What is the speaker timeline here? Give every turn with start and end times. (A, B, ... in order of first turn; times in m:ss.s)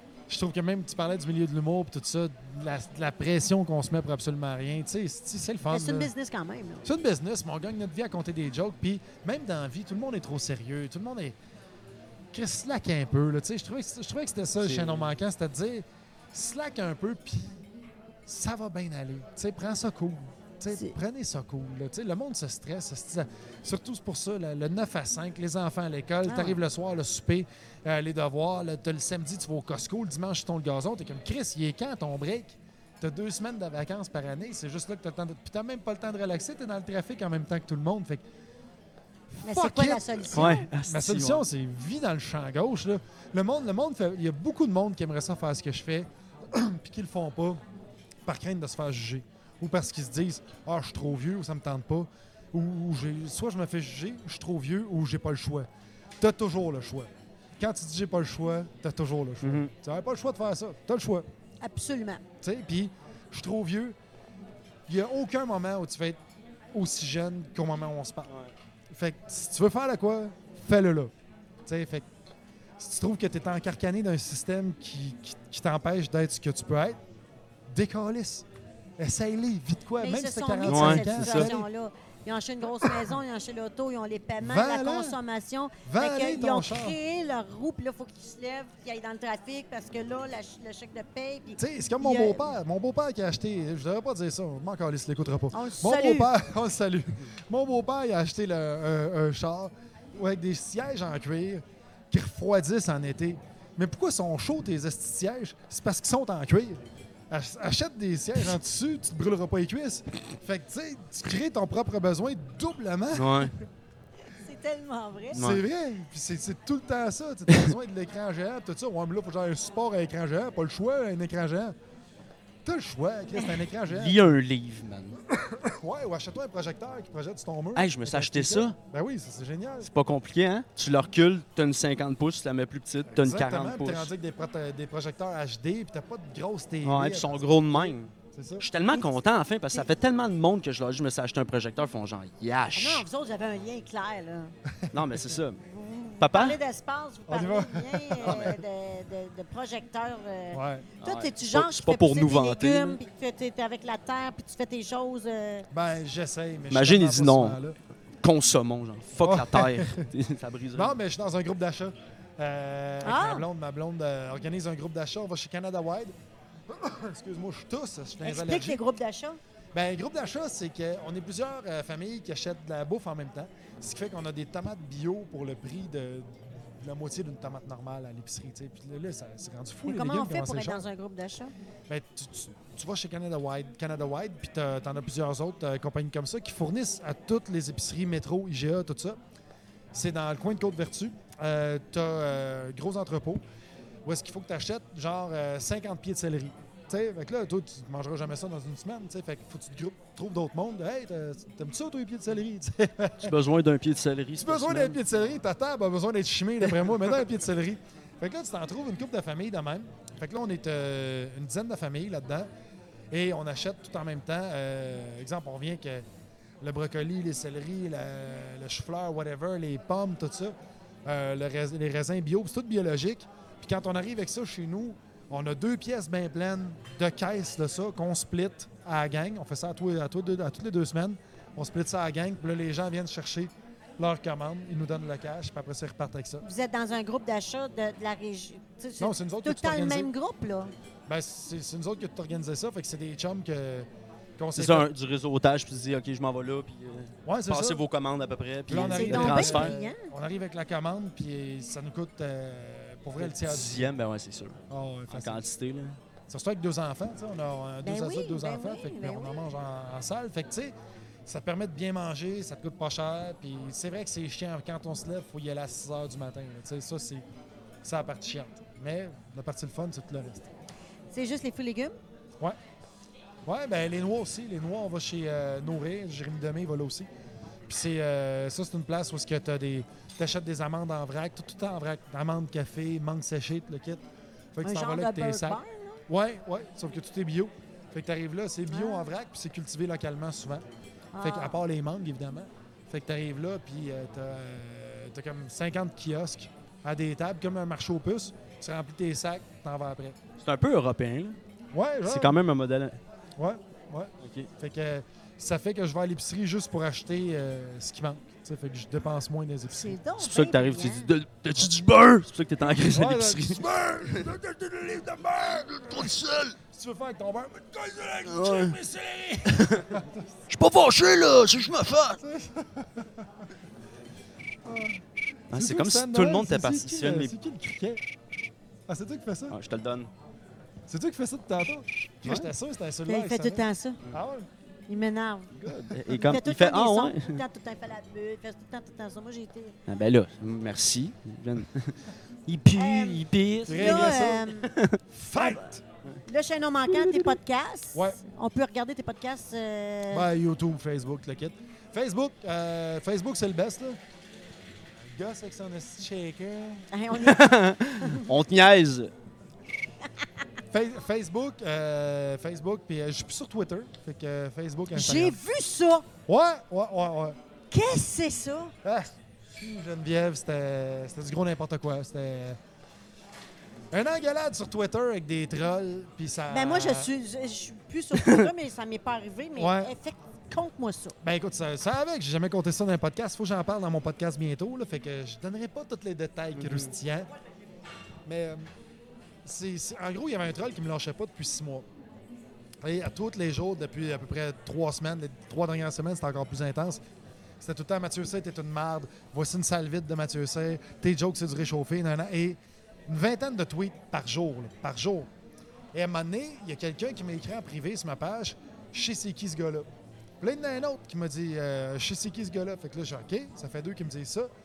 0:00.3-0:06.1 A
0:05.7-0:06.9 B
0:06.8-0:11.4 A
0:12.3-0:17.6 A
0:14.6-0:15.1 C
0:18.2-0:38.2 A
0:20.7-0:21.0 B
0:26.2-0:26.6 B
0:39.3-0:47.6 A
0:39.4-0:40.7 B
0:40.3-0:41.4 C
0:48.2-0:55.7 A
0:56.2-1:01.3 A
0:59.4-0:59.7 C
1:01.6-1:02.2 B
1:02.4-1:04.0 A
1:04.9-1:06.2 A
1:06.7-1:08.3 A
1:08.9-1:11.1 A
1:11.7-1:12.1 A
1:12.8-1:17.0 A
1:17.7-1:18.5 A
1:19.0-1:21.7 A
1:20.0-1:32.5 B
1:20.7-1:21.5 C
1:22.8-1:23.2 A
1:24.4-1:25.2 A
1:25.9-1:27.0 A
1:31.6-1:53.5 A
1:35.5-1:36.3 B
1:53.1-1:53.5 C
1:54.3-1:55.4 B
1:55.3-1:55.6 C
1:55.4-2:01.8 A
2:02.6-2:04.4 A
2:03.3-2:03.6 B
2:03.8-2:05.2 C
2:05.3-2:09.9 A
2:07.8-2:08.8 C
2:09.8-2:14.1 C
2:13.1-2:18.7 A
2:16.8-2:23.0 C
2:22.8-2:24.5 B
2:24.7-2:25.3 A
2:24.9-2:25.6 C
2:25.6-2:35.7 B
2:26.2-2:26.6 C
2:27.3-2:28.6 A
2:30.5-2:30.9 A
2:31.0-2:33.0 C
2:35.7-2:37.8 A
2:36.7-2:37.6 C
2:38.2-2:41.0 C
2:39.2-2:40.1 A
2:40.8-2:46.2 A
2:43.0-2:43.4 B
2:46.7-2:48.8 A
2:48.2-2:49.4 B
2:49.7-3:00.8 A
2:59.9-3:01.5 B
3:01.9-3:09.2 A
3:09.9-3:13.4 A
3:14.0-3:23.4 A
3:23.2-3:25.0 C
3:24.4-3:32.5 A
3:33.1-3:36.1 A
3:36.6-3:56.4 A
3:56.4-4:00.7 B
3:59.0-4:00.1 A
4:01.1-4:04.9 A
4:04.6-4:09.8 C
4:07.3-4:07.8 A
4:08.7-4:13.9 A
4:08.7-4:10.0 B
4:13.2-4:16.0 C
4:14.7-4:15.5 A
4:16.3-4:20.7 A
4:17.8-4:19.5 B
4:21.3-4:27.2 A
4:27.8-4:30.6 A
4:31.1-4:32.0 B
4:33.4-4:37.1 A
4:37.7-4:50.6 A
4:44.6-4:46.0 B
4:48.7-4:49.1 B
4:51.1-4:51.6 B
4:51.2-5:00.2 A
5:00.4-5:01.4 C
5:01.7-5:02.4 A
5:02.0-5:03.0 C
5:03.4-5:10.0 A
5:04.2-5:04.5 C
5:09.7-5:11.1 B
5:10.2-5:13.6 C
5:12.9-5:20.3 A
5:16.0-5:16.6 C
5:18.3-5:18.8 C
5:19.5-5:19.9 C
5:20.5-5:22.2 C
5:22.2-5:23.3 A
5:24.6-5:28.1 A
5:25.5-5:27.3 C
5:28.9-5:29.6 A
5:29.5-5:30.1 C
5:30.9-5:34.5 A
5:32.2-5:32.5 C
5:33.1-5:34.0 B
5:34.9-5:35.5 B
5:35.6-5:37.4 C
5:35.7-5:36.4 A
5:36.1-5:39.8 B
5:39.9-5:45.5 C
5:42.8-5:44.7 B
5:43.7-5:44.5 A
5:45.1-5:45.8 A
5:46.3-5:50.3 B
5:47.9-5:48.2 A
5:50.1-5:54.0 A
5:55.1-5:56.9 A
5:56.9-5:58.2 B
5:57.1-5:59.1 C
6:00.7-6:05.4 A
6:04.9-6:06.1 B
6:06.3-6:07.4 A
6:07.7-6:08.8 B
6:08.8-6:12.6 A
6:13.9-6:17.1 A
6:16.5-6:21.2 B
6:19.6-6:19.9 A
6:21.2-6:27.3 A
6:26.6-6:26.9 C
6:28.3-6:28.7 A
6:29.4-6:31.9 A
6:32.8-6:37.0 A
6:37.6-6:45.3 A
6:45.9-6:49.9 A
6:50.4-6:54.5 A